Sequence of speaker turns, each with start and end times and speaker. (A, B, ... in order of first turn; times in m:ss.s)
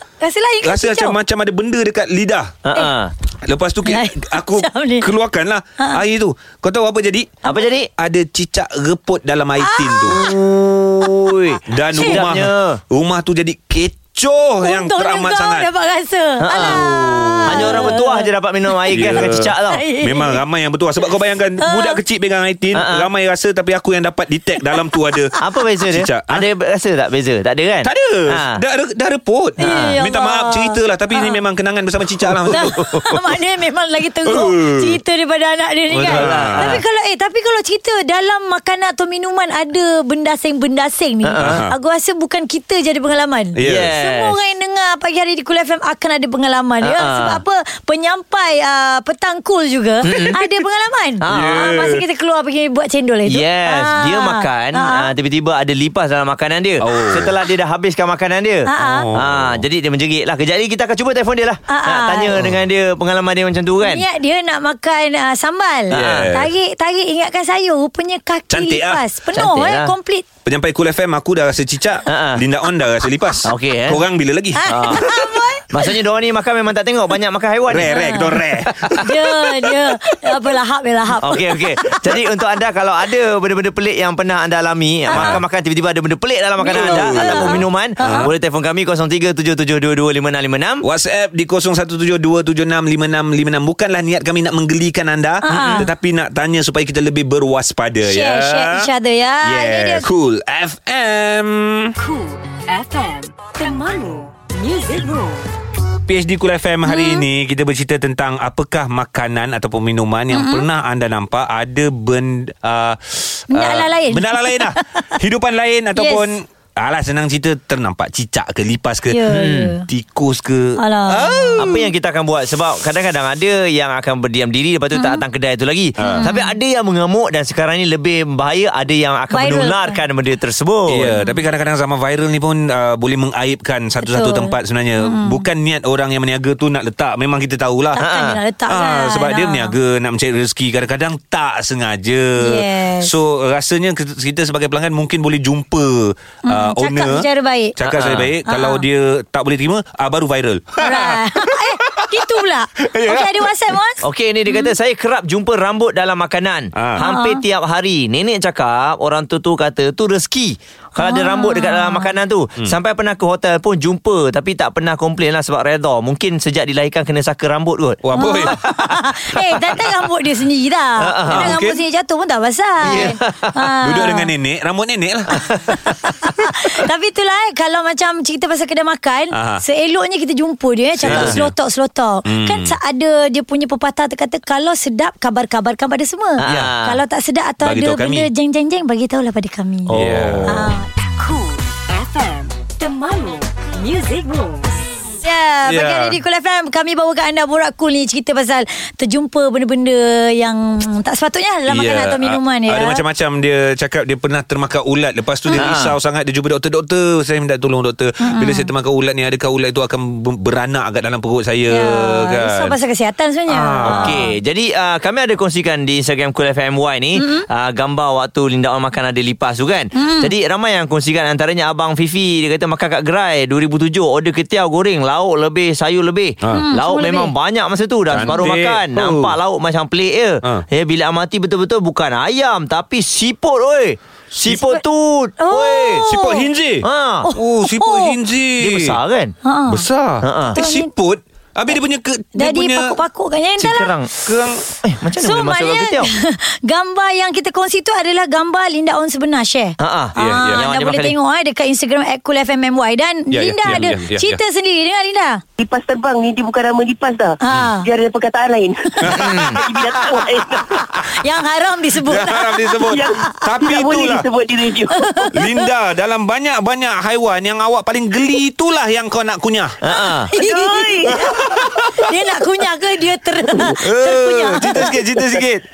0:00.2-0:01.2 A
0:00.6-0:02.5 B
0:02.6-0:03.1 C
0:03.4-0:07.3 B
0:03.8-0:05.1 A
0:07.4-0:07.9 C
0:08.0-0:10.3 B
0:09.6-0:10.3 A
0:10.1-0:12.8 C
0:11.7-0:15.7 B
0:12.0-0:12.2 A
0:14.6-0:18.3 A
0:16.4-0:16.8 C
0:16.6-0:17.9 B
0:17.5-0:19.8 C
0:18.9-0:20.4 A
0:18.9-0:25.3 B
0:21.6-0:22.0 A
0:22.7-0:23.1 C
0:25.4-0:28.6 C
0:25.9-0:26.4 B
0:27.8-0:33.2 B
0:29.6-0:31.4 A
0:32.5-0:55.1 A
0:32.5-0:33.1 C
0:34.3-0:35.0 B
0:36.0-0:36.8 B
0:36.0-0:36.8 C
0:41.3-0:41.6 C
0:41.4-0:41.7 B
0:43.6-0:44.0 B
0:43.6-0:44.4 C
0:46.8-0:47.4 C
0:50.1-0:50.4 C
0:51.2-0:51.6 C
0:51.3-0:52.0 B
0:53.3-1:04.0 C
0:56.8-0:57.3 B
0:58.7-0:59.1 A
0:58.8-0:59.6 B
1:01.7-1:02.3 A
1:03.8-1:10.3 A
1:05.9-1:06.3 C
1:05.9-1:06.5 B
1:08.5-1:09.0 B
1:09.4-1:09.9 C
1:10.4-1:15.4 B
1:12.1-1:12.4 C
1:13.4-1:14.0 C
1:14.6-1:15.9 A
1:14.7-1:15.1 C
1:15.7-1:19.0 C
1:17.7-1:19.1 B
1:17.9-1:18.4 A
1:19.0-1:21.6 A
1:21.2-1:30.8 C
1:25.1-1:25.4 A
1:25.1-1:25.4 B
1:26.6-1:28.3 A
1:26.7-1:28.3 B
1:30.8-1:38.9 B
1:35.4-1:35.9 A
1:35.5-1:35.9 C
1:38.0-1:40.1 A
1:39.4-1:42.0 B
1:42.0-1:45.5 D
1:46.1-1:59.2 B
1:46.8-1:47.2 A
1:50.3-1:50.7 A
1:53.5-1:55.1 A
1:56.0-1:56.2 A
1:59.1-1:59.8 A
1:59.3-1:59.7 C
1:59.9-2:01.9 B
2:00.8-2:01.7 A
2:01.6-2:11.1 C
2:05.0-2:05.2 A
2:06.0-2:06.3 B
2:06.0-2:06.5 A
2:09.3-2:10.0 A
2:10.9-2:18.0 B
2:11.1-2:11.4 A
2:14.0-2:15.4 A
2:18.0-2:19.7 A
2:18.0-2:18.4 C
2:18.7-2:27.3 B
2:22.4-2:23.1 A
2:26.5-2:27.8 A
2:27.8-2:33.5 B
2:27.9-2:28.3 C
2:28.5-2:28.8 A
2:30.8-2:34.7 A
2:34.0-2:48.9 C
2:36.8-2:37.0 B
2:37.0-2:37.4 A
2:41.0-2:42.1 A
2:48.0-2:48.6 B
2:48.2-2:54.3 A
2:51.0-2:51.5 C
2:51.3-2:51.8 B
2:52.8-2:53.1 B
2:52.8-2:53.5 C
2:53.8-2:55.8 B
2:56.2-3:10.0 A
2:59.3-2:59.6 B
3:01.0-3:01.5 B
3:01.1-3:01.4 C
3:02.2-3:02.8 B
3:06.4-3:07.0 C
3:07.6-3:08.3 B
3:09.9-3:10.7 C
3:09.9-3:10.8 B
3:10.5-3:10.9 A
3:11.0-3:14.8 D
3:15.2-3:23.0 A
3:15.7-3:16.2 B
3:21.7-3:32.8 B
3:25.6-3:26.0 C
3:28.2-3:28.7 A
3:31.7-3:34.3 A
3:33.5-3:34.3 B
3:33.8-3:56.0 C
3:37.2-3:37.5 A
3:40.0-3:40.3 A
3:46.4-3:46.7 B
3:46.5-3:47.3 A
3:48.1-3:49.4 B
3:54.5-3:54.8 A
3:55.4-3:56.5 A
3:56.0-3:59.0 B
3:56.8-3:57.3 C
3:57.2-3:58.2 A
3:58.6-3:59.4 C
3:59.4-3:59.9 A
3:59.7-4:03.0 B
4:00.2-4:00.6 C
4:00.5-4:00.9 A
4:02.4-4:03.9 A
4:03.6-4:04.3 C
4:04.2-4:04.6 B
4:04.8-4:06.1 C
4:05.2-4:15.4 A
4:09.8-4:11.2 C
4:10.2-4:10.6 B
4:13.3-4:14.4 B
4:15.6-4:20.9 E
4:17.4-4:17.9 A
4:19.0-4:20.3 B
4:19.2-4:19.6 C
4:21.1-4:23.2 A
4:22.0-4:24.3 B
4:22.9-4:25.3 E
4:25.0-4:25.6 A
4:25.3-4:29.8 B
4:29.8-4:30.3 C
4:30.3-4:31.2 A
4:30.4-4:31.7 E
4:31.1-4:32.1 B
4:32.0-4:34.9 A
4:33.6-4:35.6 B